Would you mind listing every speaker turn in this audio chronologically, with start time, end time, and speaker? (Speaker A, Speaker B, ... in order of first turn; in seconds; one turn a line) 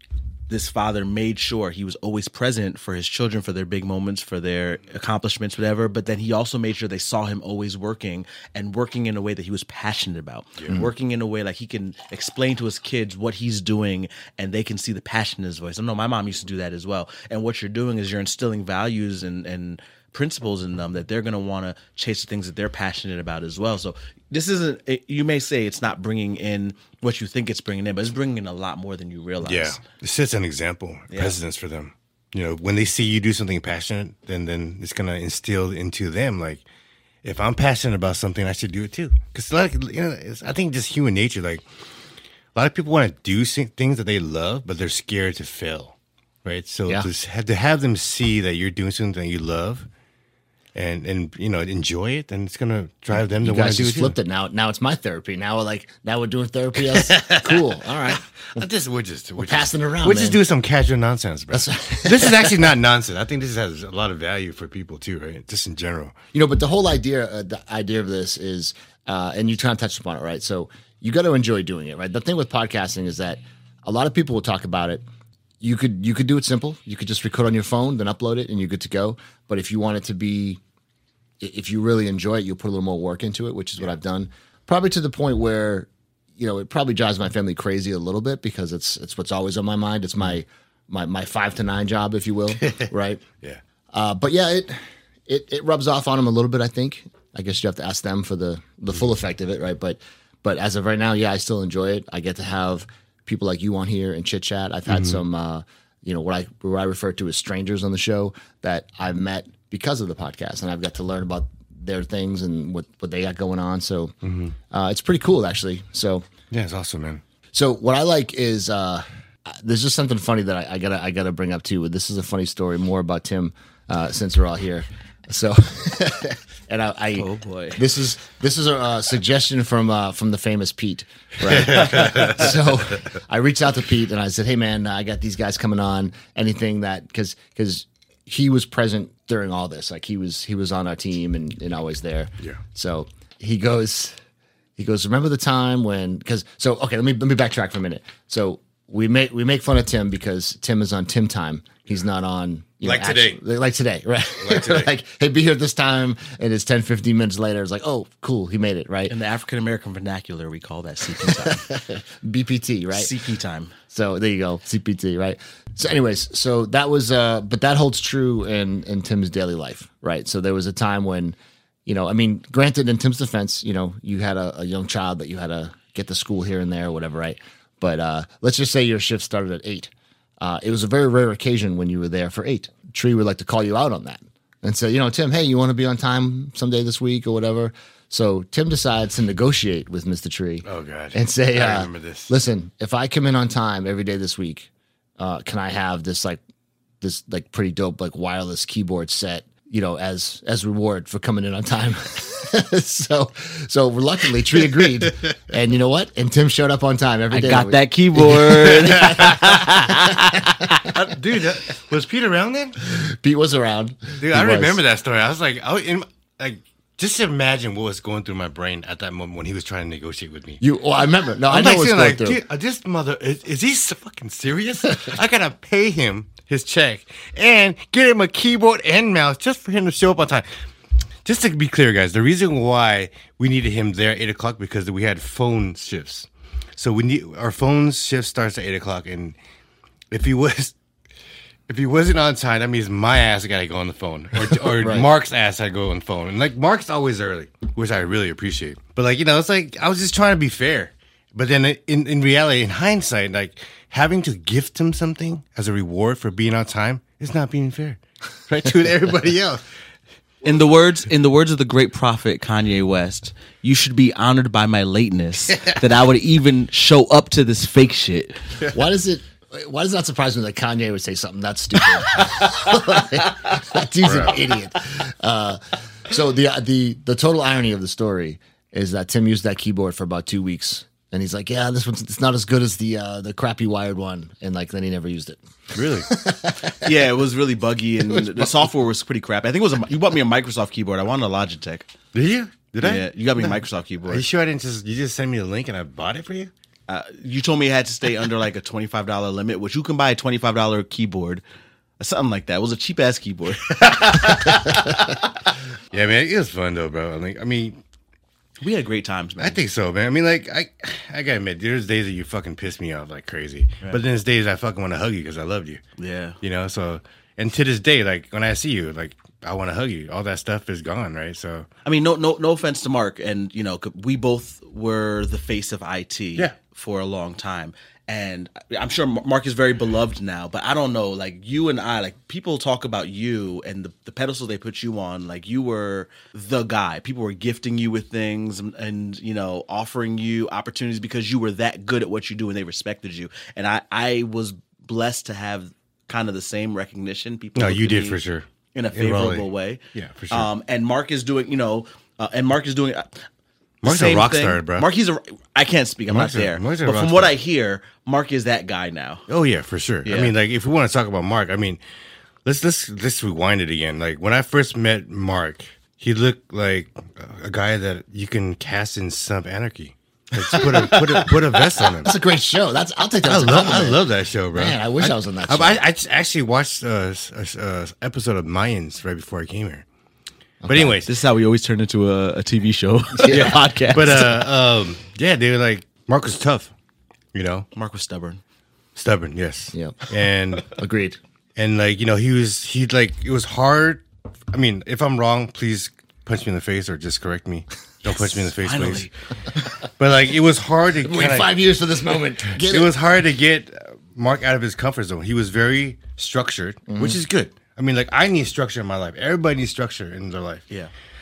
Speaker A: 0.5-29.8
Speaker B: 29.4-36.6
Speaker A: 31.1-31.4
Speaker B: 37.2-41.6
Speaker B: 42.5-49.9
Speaker B: 50.8-54.2
Speaker C: 53.4-58.6
Speaker B: 56.9-66.2
Speaker C: 59.4-60.4
Speaker C: 61.5-62.7
Speaker C: 66.3-75.0
Speaker C: 75.6-80.6
Speaker C: 81.4-93.2
Speaker B: 92.6-92.9
Speaker C: 93.9-114.1
Speaker B: 104.9-105.2
Speaker B: 114.2-114.6
Speaker C: 114.7-116.3
Speaker B: 116.5-117.2
Speaker C: 117.5-144.2
Speaker A: 127.2-127.8
Speaker B: 131.5-132.6
Speaker A: 131.9-132.3
Speaker C: 144.8-159.1
Speaker B: 152.8-153.4
Speaker B: 154.4-154.9
Speaker A: 159.1-161.7
Speaker C: 161.2-163.1
Speaker A: 162.9-163.7
Speaker C: 163.9-196.4
Speaker B: 190.7-192.3
Speaker C: 197.0-210.9
Speaker A: 207.3-210.9
Speaker B: 210.8-212.8
Speaker C: 212.8-214.8
Speaker B: 214.2-220.6
Speaker C: 220.6-222.4
Speaker B: 221.5-230.5
Speaker B: 231.2-239.4
Speaker B: 240.1-240.7
Speaker B: 241.7-259.6
Speaker C: 244.7-245.1
Speaker A: 260.4-268.4
Speaker C: 268.7-285.4
Speaker B: 274.0-274.4
Speaker B: 285.7-286.1
Speaker C: 286.0-286.9
Speaker A: 286.7-291.9
Speaker B: 292.1-296.5
Speaker A: 292.8-294.2
Speaker A: 296.9-301.4
Speaker A: 302.0-305.3
Speaker B: 303.7-304.6
Speaker B: 305.9-307.8
Speaker A: 308.6-309.6
Speaker B: 309.4-315.8
Speaker A: 316.0-316.4
Speaker B: 316.4-321.7
Speaker A: 321.9-348.2
Speaker B: 347.6-350.5
Speaker A: 348.7-353.2
Speaker B: 353.8-354.9
Speaker A: 353.8-359.3
Speaker B: 356.1-357.4
Speaker B: 359.3-361.8
Speaker A: 360.1-360.3
Speaker B: 362.4-372.2
Speaker A: 370.4-371.8
Speaker C: 370.8-371.2
Speaker C: 371.9-375.8
Speaker B: 373.2-379.9
Speaker C: 380.6-381.0
Speaker B: 380.7-381.1
Speaker A: 381.1-384.4
Speaker C: 383.2-383.5
Speaker B: 383.3-386.7
Speaker B: 387.3-387.7
Speaker A: 387.7-388.4
Speaker B: 389.0-390.8
Speaker C: 389.7-390.1
Speaker C: 390.7-391.2
Speaker B: 391.6-399.1
Speaker A: 398.1-399.1
Speaker B: 399.9-401.5
Speaker C: 401.0-402.9
Speaker B: 402.5-410.6
Speaker C: 406.9-407.2